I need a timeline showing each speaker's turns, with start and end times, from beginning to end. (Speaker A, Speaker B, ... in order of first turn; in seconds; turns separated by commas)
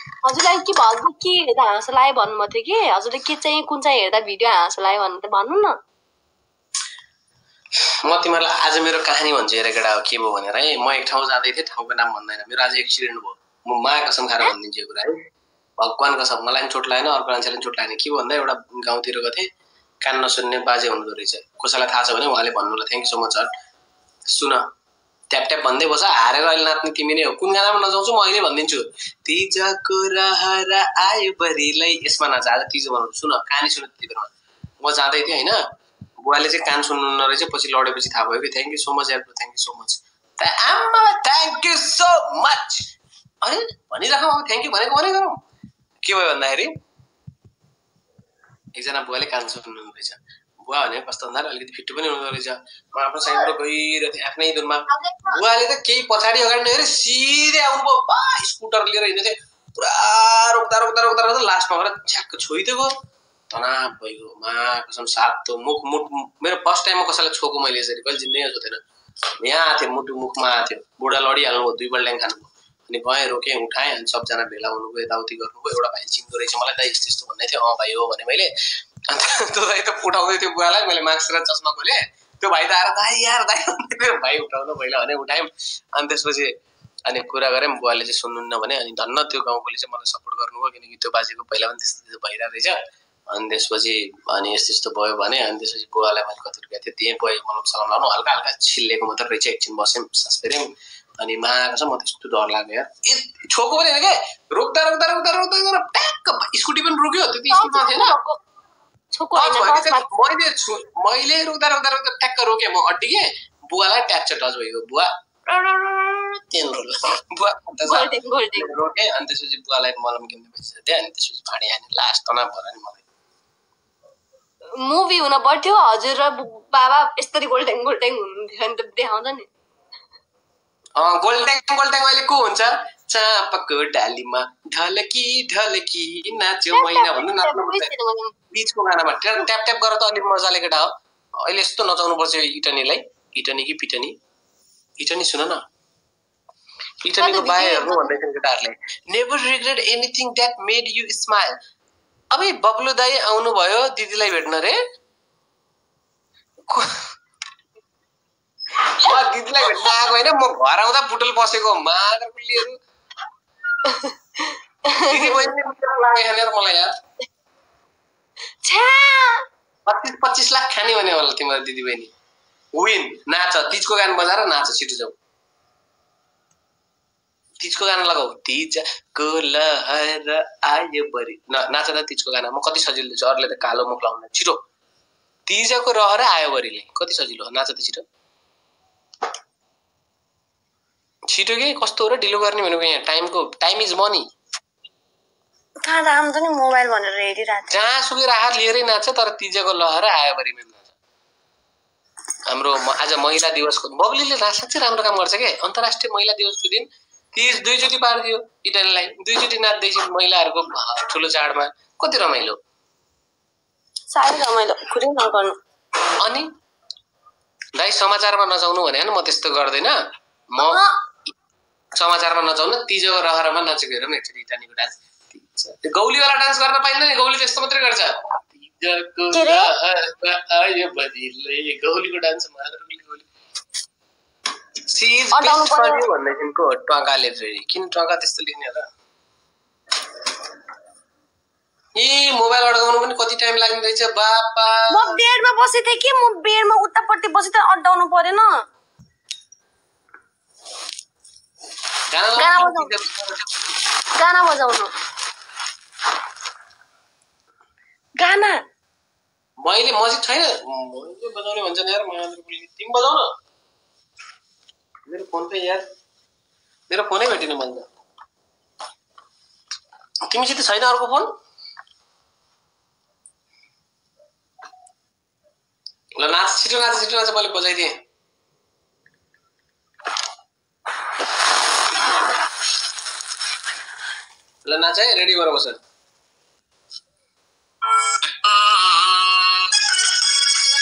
Speaker A: 0.2-5.8, Speaker B: 8.0-15.2, Speaker B: 15.8-19.5, Speaker B: 20.0-23.5, Speaker B: 24.3-24.6, Speaker B: 25.3-35.6, Speaker B: 36.2-42.9, Speaker B: 43.4-45.4, Speaker B: 46.0-46.8, Speaker B: 48.8-62.9, Speaker A: 54.9-55.4, Speaker B: 63.5-68.8, Speaker B: 69.4-78.5, Speaker B: 79.1-86.5, Speaker B: 87.1-92.8, Speaker B: 93.3-108.2, Speaker A: 107.5-108.4, Speaker A: 109.1-110.1, Speaker B: 109.3-123.0, Speaker A: 117.8-118.7, Speaker A: 124.8-129.5, Speaker B: 131.0-137.9, Speaker A: 136.7-138.3, Speaker B: 138.5-144.2, Speaker B: 145.0-145.6, Speaker B: 147.0-151.6, Speaker A: 147.2-148.2, Speaker B: 152.3-154.8, Speaker B: 156.7-157.0, Speaker B: 158.8-162.8, Speaker A: 159.7-160.0, Speaker A: 163.8-165.5, Speaker B: 165.1-166.9, Speaker A: 168.7-169.4, Speaker B: 169.9-172.1, Speaker B: 172.8-175.2, Speaker B: 177.6-184.6, Speaker B: 185.5-188.1, Speaker B: 191.3-194.3, Speaker A: 195.8-197.8, Speaker B: 197.7-200.9, Speaker B: 202.5-212.6, Speaker A: 214.1-215.6, Speaker B: 216.2-216.5, Speaker B: 217.8-220.0, Speaker B: 220.5-220.8, Speaker A: 220.6-220.9, Speaker B: 221.9-233.3, Speaker A: 229.3-229.7, Speaker B: 234.9-238.9, Speaker A: 235.3-236.0, Speaker B: 242.0-245.2, Speaker A: 244.9-248.6, Speaker B: 252.1-253.5, Speaker A: 252.4-252.9, Speaker A: 254.2-254.9, Speaker A: 258.2-258.6, Speaker B: 259.6-263.3, Speaker B: 265.1-265.9, Speaker B: 266.9-267.9, Speaker B: 270.2-271.3, Speaker B: 276.2-277.9, Speaker B: 284.6-285.8, Speaker B: 288.7-289.1